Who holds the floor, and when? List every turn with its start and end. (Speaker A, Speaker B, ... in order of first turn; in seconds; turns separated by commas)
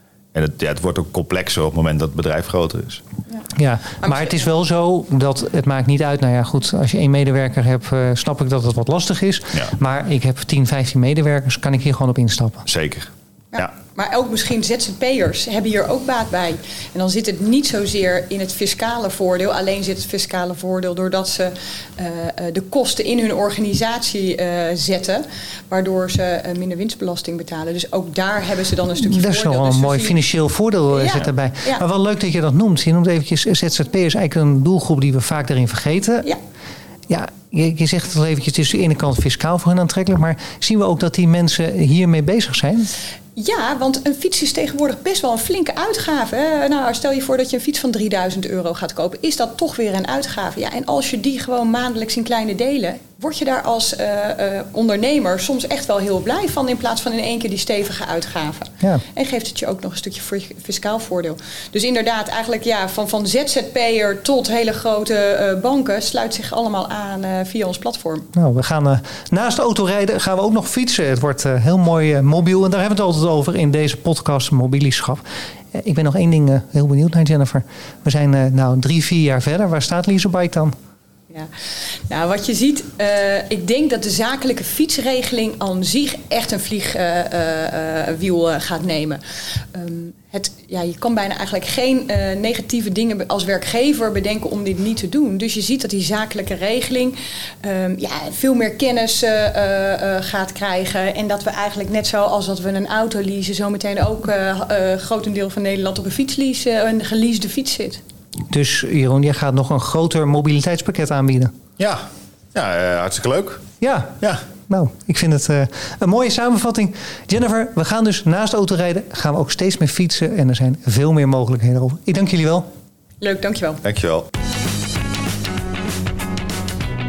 Speaker A: 0.3-3.0, Speaker B: 3.6-12.7, Speaker C: 4.0-4.5, Speaker A: 12.7-13.7, Speaker C: 13.5-30.2, Speaker B: 29.0-36.3, Speaker C: 30.9-31.8, Speaker B: 37.1-42.9, Speaker C: 43.4-68.3, Speaker B: 68.3-75.2, Speaker B: 75.7-80.7, Speaker C: 82.1-89.2, Speaker C: 89.7-108.0, Speaker B: 108.5-111.5, Speaker A: 111.8-112.0, Speaker A: 112.5-113.7, Speaker B: 113.8-122.7, Speaker C: 123.2-123.8, Speaker A: 123.8-124.3